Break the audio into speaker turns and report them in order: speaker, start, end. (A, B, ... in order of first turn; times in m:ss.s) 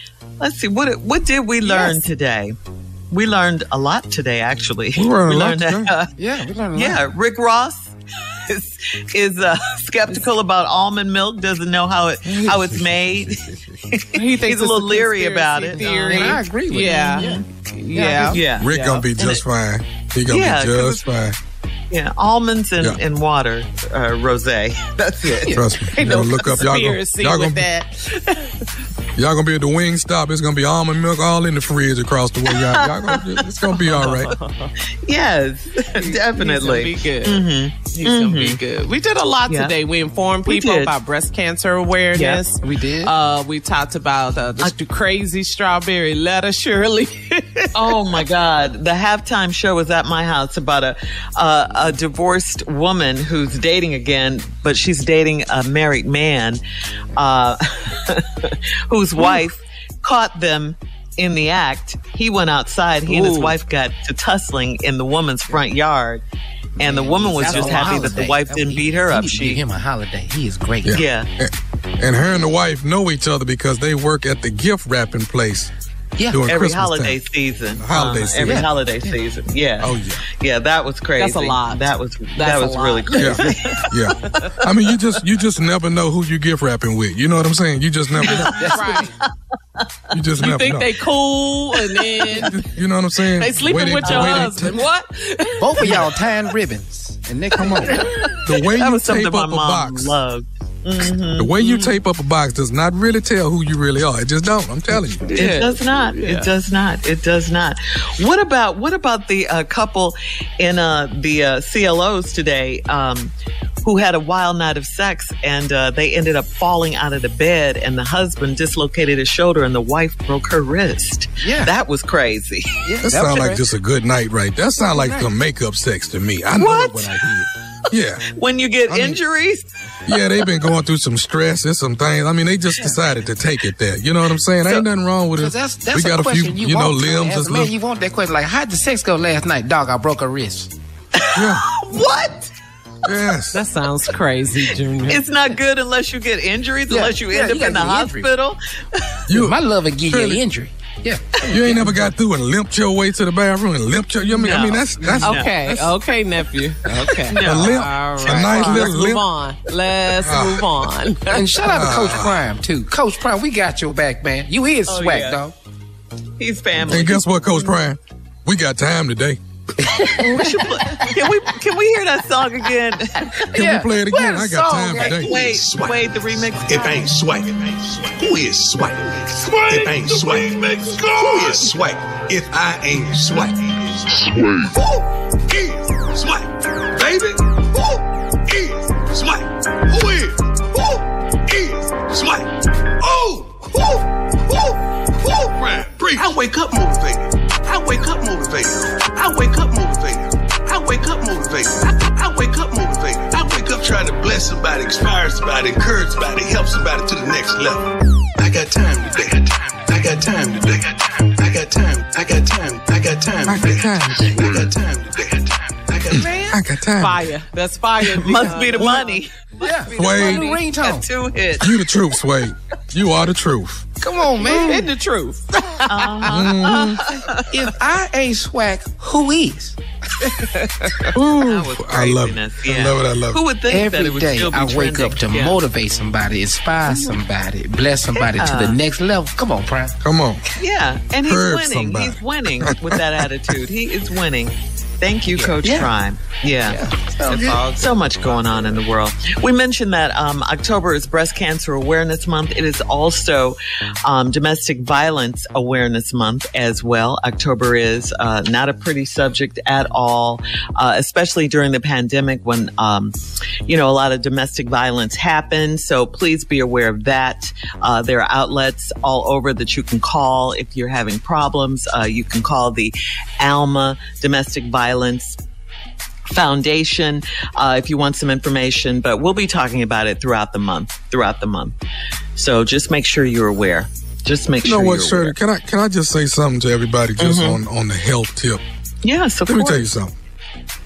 0:00.4-0:02.5 A
0:01.6-0:02.0 B
0:03.1-0:06.1 A
0:05.0-0:05.9 C
0:06.2-0:07.0 B
0:06.7-0:07.9 A
0:08.4-0:17.4 A
0:14.1-0:19.0 D
0:15.7-0:18.4 B
0:18.2-0:19.4 A
0:18.6-0:21.4 C
0:20.3-0:21.1 A
0:21.9-0:25.6 A
0:25.4-0:25.7 B
0:25.4-0:27.6 C
0:25.9-0:28.7 D
0:29.2-0:34.3 C
0:32.5-0:33.5 A
0:34.0-0:34.7 D
0:35.0-0:38.6 A
0:36.0-0:37.4 D
0:38.0-0:48.0 D
0:39.5-0:39.8 A
0:40.4-0:40.9 A
0:42.1-0:42.4 A
0:42.6-0:43.1 B
0:47.7-0:56.6 A
0:57.2-1:06.2 A
1:03.1-1:03.6 D
1:06.8-1:11.0 B
1:06.8-1:09.6 A
1:07.4-1:07.9 D
1:10.8-1:15.7 C
1:10.9-1:11.3 A
1:16.2-1:16.4 B
1:16.3-1:17.2 C
1:16.4-1:23.9 A
1:17.8-1:18.6 C
1:18.4-1:19.2 B
1:19.8-1:20.2 C
1:21.2-1:21.8 D
1:22.4-1:23.5 D
1:23.2-1:28.8 C
1:28.2-1:29.1 D
1:28.3-1:29.1 B
1:28.3-1:29.9 A
1:30.1-1:30.9 C
1:30.4-1:32.7 D
1:32.0-1:32.4 A
1:32.4-1:34.8 C
1:33.3-1:36.2 D
1:34.0-1:34.5 A
1:35.6-1:38.1 B
1:37.6-1:40.1 C
1:37.9-1:42.0 A
1:41.4-1:45.3 C
1:45.2-1:46.5 D
1:45.3-1:53.3 A
1:53.8-2:02.9 A
2:01.4-2:01.7 B
2:02.8-2:03.6 B
2:03.0-2:07.2 C
2:04.8-2:05.3 B
2:06.6-2:07.4 A
2:07.9-2:08.3 C
2:08.4-2:09.7 A
2:08.9-2:09.2 C
2:10.1-2:17.7 C
2:15.3-2:20.7 B
2:21.2-2:22.5 A
2:21.3-2:21.6 C
2:23.0-2:23.6 C
2:23.5-2:25.3 D
2:25.0-2:28.6 A
2:26.9-2:28.3 B
2:29.3-2:30.4 C
2:29.3-2:32.0 B
2:31.5-2:35.5 C
2:34.3-2:35.9 A
2:35.2-2:41.6 D
2:37.2-2:38.9 A
2:37.4-2:39.2 C
2:40.2-2:40.6 C
2:41.3-2:45.5 B
2:41.7-2:42.4 C
2:44.9-2:45.4 A
2:46.4-2:47.8 A
2:46.9-2:49.4 C
2:49.8-2:50.9 B
2:50.2-2:53.5 A
2:53.5-2:55.5 B
2:53.5-2:55.4 C
2:54.9-2:57.1 A
2:55.2-3:04.6 E
2:59.7-3:00.5 B
3:01.2-3:01.7 B
3:05.5-3:36.3 E
3:33.4-3:34.7 C
3:36.1-3:36.6 B
3:36.1-3:37.2 C
3:36.9-3:39.2 D
3:38.2-3:41.7 A
3:38.4-3:39.1 B
3:39.6-3:41.1 B
3:39.9-3:40.5 C
3:41.6-3:43.9 C
3:44.0-3:44.9 B
3:44.4-3:45.8 D
3:45.8-3:47.5 A
3:46.3-3:47.0 C
3:47.5-3:49.8 B
3:50.4-3:50.9 D
3:51.1-3:53.4 C
3:51.4-3:55.6 A
3:53.7-4:00.0 B
3:56.9-3:57.2 A
3:58.2-3:58.8 A
4:00.0-4:00.4 C
4:00.6-4:06.8 A
4:01.2-4:03.2 C
4:05.3-4:05.9 B
4:06.6-4:07.6 B
4:07.3-4:07.6 D
4:07.5-4:23.1 A
4:23.6-4:35.4 A
4:36.3-4:41.8 A
4:42.3-4:45.4 A
4:44.6-4:48.6 C
4:47.2-4:47.6 A
4:49.0-4:49.9 A
4:49.5-4:50.1 C